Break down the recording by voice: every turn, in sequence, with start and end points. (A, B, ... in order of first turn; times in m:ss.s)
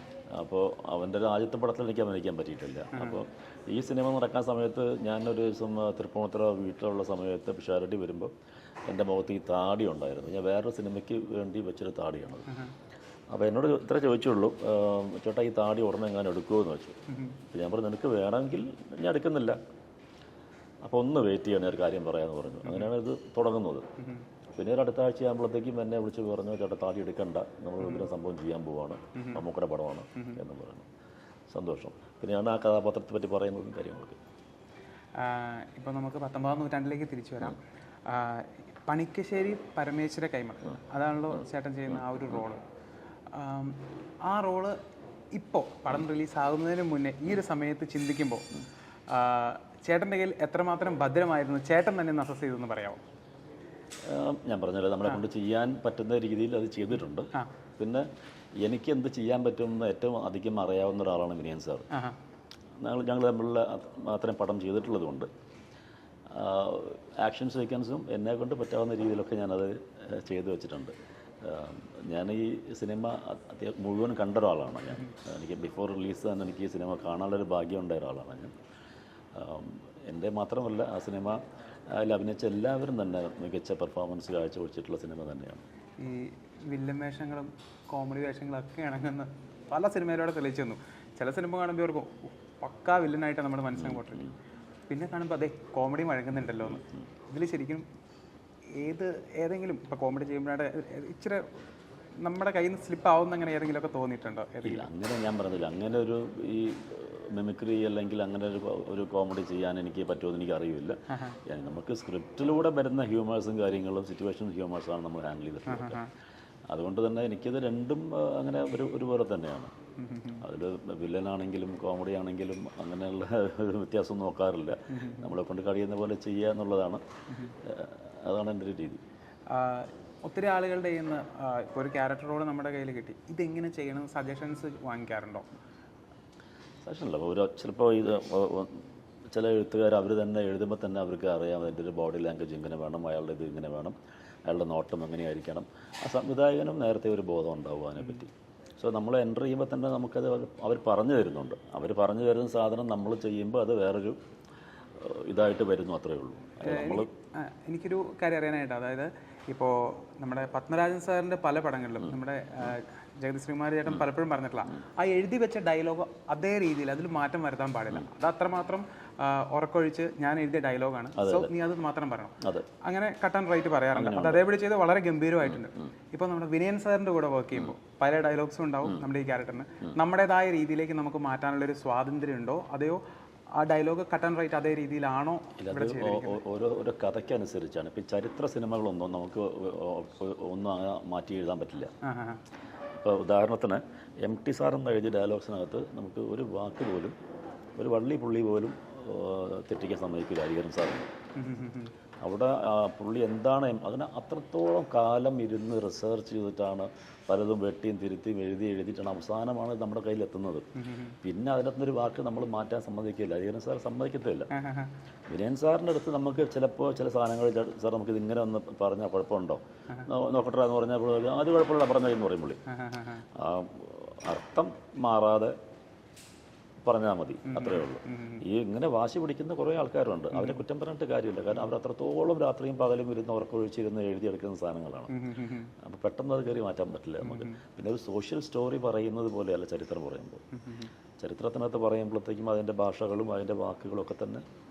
0:00.3-0:08.3 A
0:08.9-0:12.5 A
0:13.3-0:17.0 A
0:17.1-0:17.4 B
0:17.5-0:19.6 A
0:20.8-0:23.9 A
0:24.6-0:30.9 A
0:27.8-0:28.1 B
0:31.5-0:34.2 A
0:35.2-0:42.6 B
0:41.9-0:42.4 A
0:43.3-0:44.8 B
0:45.3-0:48.5 B
0:49.1-0:53.0 B
0:54.1-0:58.1 A
0:58.6-1:01.9 A
1:02.8-1:05.3 A
1:06.3-1:18.5 A
1:19.4-1:21.4 A
1:21.9-1:25.6 A
1:26.0-1:34.3 B
1:33.8-1:34.3 A
1:34.9-1:37.8 B
1:36.4-1:37.1 A
1:38.8-1:41.5 B
1:42.2-1:44.9 B
1:44.6-1:56.0 A
1:55.7-1:56.1 B
1:56.7-1:59.7 A
2:00.0-2:00.4 B
2:00.4-2:07.0 A
2:05.0-2:05.3 B
2:07.6-2:09.0 A
2:09.5-2:15.5 B
2:16.8-2:18.8 A
2:19.3-2:24.0 A
2:24.5-2:34.2 A
2:35.0-2:37.1 A
2:36.6-3:03.0 B
2:42.0-2:42.8 A
2:51.2-2:51.5 A
2:52.4-2:52.7 A
2:53.9-2:54.4 A
2:55.4-2:55.9 A
3:03.6-3:06.4 B
3:05.6-3:11.9 A
3:12.0-3:12.4 B
3:13.0-3:17.2 A
3:17.8-3:21.1 A
3:21.4-3:21.9 B
3:22.2-3:30.7 A
3:30.8-3:31.2 B
3:31.2-3:34.5 A
3:34.5-3:34.9 B
3:35.3-3:42.6 A
3:42.7-3:43.2 B
3:43.4-3:45.6 A
3:46.8-3:55.1 A
3:47.5-3:48.4 B
3:55.1-3:55.7 B
3:55.8-4:00.4 A
3:57.2-3:57.6 B
4:00.6-4:00.9 B
4:01.2-4:04.4 A